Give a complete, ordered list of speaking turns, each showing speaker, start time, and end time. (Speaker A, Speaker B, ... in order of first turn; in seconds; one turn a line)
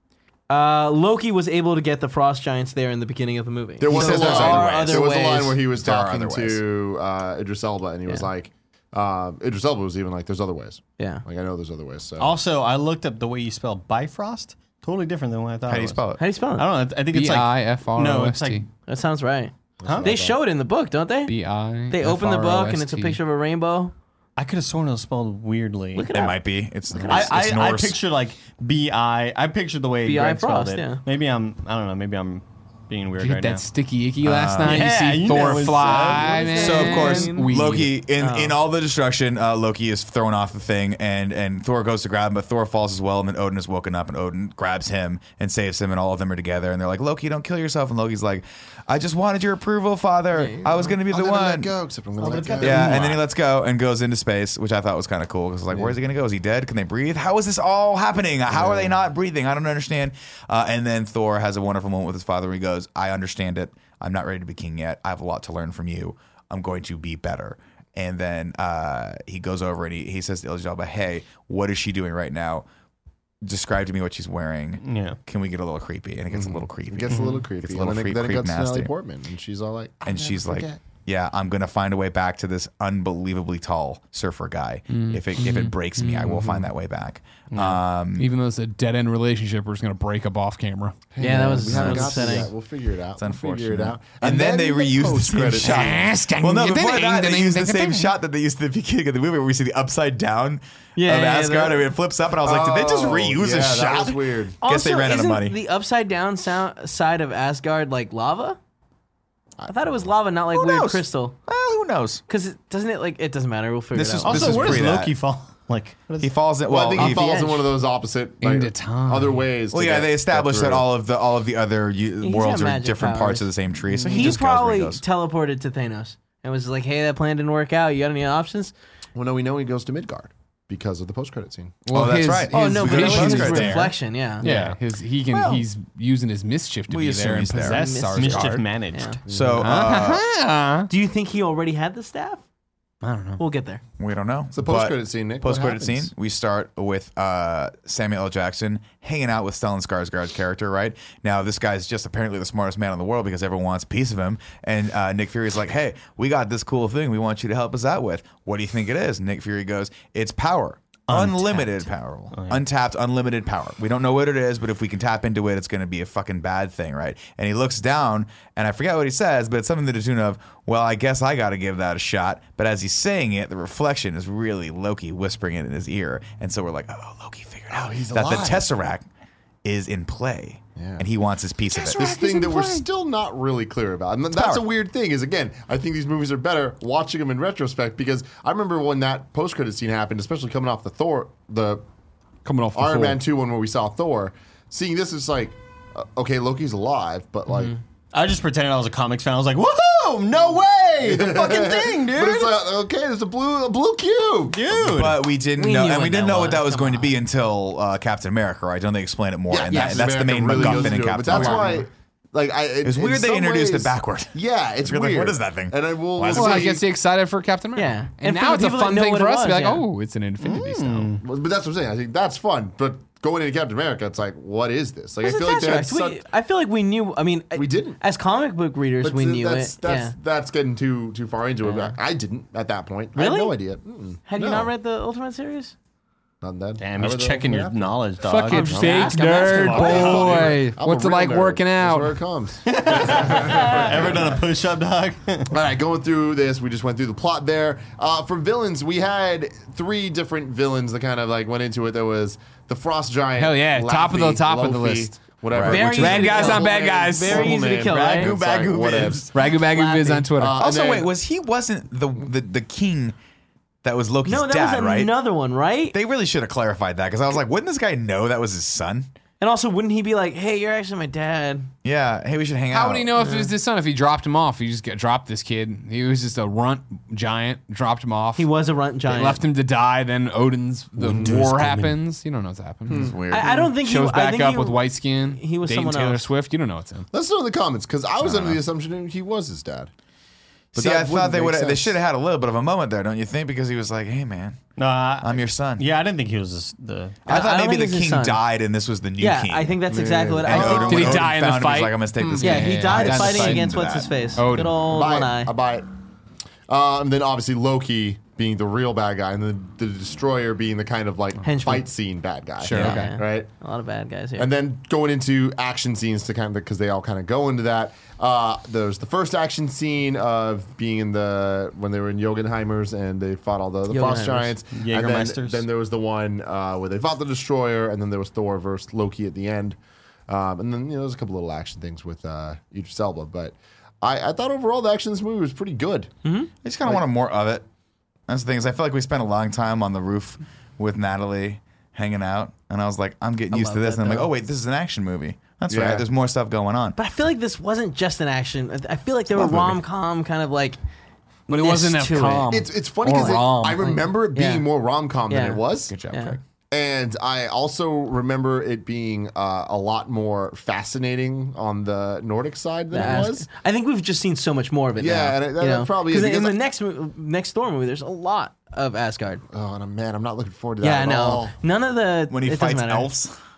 Speaker A: 0.5-5.6
Speaker B: 3.8-12.3
Speaker C: 3.8-5.0
Speaker C: 5.7-6.6
Speaker A: 11.0-11.2
Speaker D: 12.2-18.6
Speaker C: 15.7-16.2
Speaker A: 16.2-16.7
Speaker E: 17.1-18.6
Speaker A: 18.9-21.3
Speaker B: 19.8-20.4
Speaker D: 19.8-20.1
Speaker E: 21.3-23.2
Speaker A: 21.9-23.9
Speaker D: 24.4-26.1
Speaker A: 25.9-26.4
Speaker C: 26.1-28.0
Speaker D: 27.0-33.6
Speaker A: 30.0-31.0
Speaker E: 33.2-37.9
Speaker C: 34.2-35.0
Speaker D: 34.6-36.8
Speaker A: 36.0-37.6
Speaker C: 36.5-51.7
Speaker A: 38.2-38.6
Speaker A: 50.3-50.8
Speaker B: 51.0-53.1
Speaker D: 52.2-53.2
Speaker C: 52.6-72.7
Speaker B: 55.7-56.0
Speaker B: 58.5-59.0
Speaker C: 73.4-78.9
Speaker D: 74.8-75.2
Speaker B: 76.3-80.8
Speaker D: 77.1-77.4
Speaker C: 80.0-88.3
Speaker E: 84.9-86.6
Speaker D: 87.5-87.8
Speaker E: 88.2-91.0
Speaker B: 91.1-96.1
Speaker A: 91.2-92.5
Speaker C: 91.7-92.3
Speaker C: 93.2-105.6
Speaker E: 95.6-98.1
Speaker A: 101.0-101.9
Speaker B: 102.4-104.5
Speaker A: 104.6-108.6
Speaker B: 109.6-110.0
Speaker A: 109.7-111.3
Speaker C: 110.5-112.2
Speaker A: 112.3-114.8
Speaker C: 113.9-115.1
Speaker D: 114.2-116.3
Speaker C: 116.2-117.2
Speaker B: 116.7-120.9
Speaker A: 116.9-117.7
Speaker E: 118.4-119.4
Speaker C: 119.7-125.0
Speaker A: 122.2-123.5
Speaker B: 123.9-124.3
Speaker A: 124.1-128.7
Speaker B: 129.1-131.8
Speaker E: 131.8-138.7
Speaker C: 131.9-133.9
Speaker A: 132.5-134.4
Speaker D: 134.4-134.8
Speaker A: 135.3-135.6
Speaker C: 136.9-137.8
Speaker A: 137.7-139.2
Speaker D: 138.1-139.2
Speaker B: 139.3-139.8
Speaker C: 139.3-140.2
Speaker E: 139.6-140.9
Speaker A: 140.9-142.4
Speaker E: 143.0-143.4
Speaker A: 143.4-143.8
Speaker C: 144.0-179.1
Speaker B: 144.5-146.1
Speaker D: 161.1-162.6
Speaker B: 177.7-178.7
Speaker C: 179.6-182.1
Speaker B: 180.8-181.1
Speaker E: 181.7-182.8
Speaker B: 181.8-191.8
Speaker C: 184.3-184.7
Speaker E: 192.4-193.2
Speaker B: 192.7-197.7
Speaker D: 198.1-202.6
Speaker B: 201.0-204.7
Speaker D: 204.5-205.2
Speaker C: 204.7-211.8
Speaker A: 205.6-207.1
Speaker B: 209.5-216.8
Speaker A: 209.7-211.6
Speaker C: 212.8-216.8
Speaker E: 216.3-221.2
Speaker A: 217.8-219.8
Speaker D: 220.4-221.2
Speaker B: 221.2-226.2
Speaker A: 225.2-230.1
Speaker B: 227.5-228.0
Speaker B: 229.0-234.7
Speaker A: 231.6-231.9
Speaker A: 233.2-233.6
Speaker A: 234.3-235.7
Speaker B: 236.4-237.9
Speaker D: 236.8-238.7
Speaker E: 238.2-242.2
Speaker A: 238.5-240.5
Speaker B: 238.6-244.4
Speaker D: 239.6-240.5
Speaker D: 242.7-245.5
Speaker B: 245.5-259.5
Speaker E: 253.4-255.1
Speaker C: 255.5-255.8
Speaker A: 255.6-258.3
Speaker E: 255.8-257.5
Speaker D: 257.9-259.3
Speaker E: 259.3-260.6
Speaker A: 259.6-260.3
Speaker B: 260.3-261.1
Speaker C: 260.6-263.1
Speaker C: 263.8-265.1
Speaker A: 264.2-265.9
Speaker C: 265.9-269.1
Speaker A: 269.4-271.7
Speaker C: 271.8-273.2
Speaker E: 272.7-278.5
Speaker A: 273.2-273.5
Speaker A: 278.4-279.4
Speaker E: 279.1-287.1
Speaker B: 281.0-281.4
Speaker D: 281.0-281.9
Speaker B: 282.9-283.2
Speaker C: 282.9-283.6
Speaker A: 283.3-286.3
Speaker B: 287.1-289.9
Speaker C: 288.2-288.6
Speaker B: 290.7-292.0
Speaker C: 290.7-294.7
Speaker D: 294.8-297.2
Speaker C: 295.2-295.8
Speaker A: 297.2-298.4
Speaker C: 297.2-299.8
Speaker A: 299.2-301.3
Speaker B: 299.9-301.3
Speaker C: 300.4-304.1
Speaker E: 300.6-303.7
Speaker A: 302.4-305.5
Speaker E: 304.4-304.8
Speaker B: 304.8-305.9
Speaker B: 306.7-313.5
Speaker A: 311.4-311.9
Speaker E: 312.6-313.2
Speaker A: 312.7-314.5
Speaker B: 314.4-329.8
Speaker A: 323.9-324.6
Speaker D: 324.7-325.6
Speaker B: 330.3-336.1
Speaker A: 336.2-336.5
Speaker C: 336.6-337.6
Speaker C: 338.3-347.0
Speaker A: 343.5-344.3
Speaker B: 345.7-346.0
Speaker A: 346.9-350.8
Speaker B: 349.3-349.8
Speaker E: 351.5-354.0
Speaker A: 351.5-354.7
Speaker B: 352.5-355.9
Speaker A: 355.3-356.4
Speaker C: 355.9-356.4
Speaker B: 356.7-363.5
Speaker A: 362.9-369.4
Speaker B: 365.0-366.6
Speaker B: 369.5-371.5
Speaker A: 370.8-373.1
Speaker C: 372.3-373.4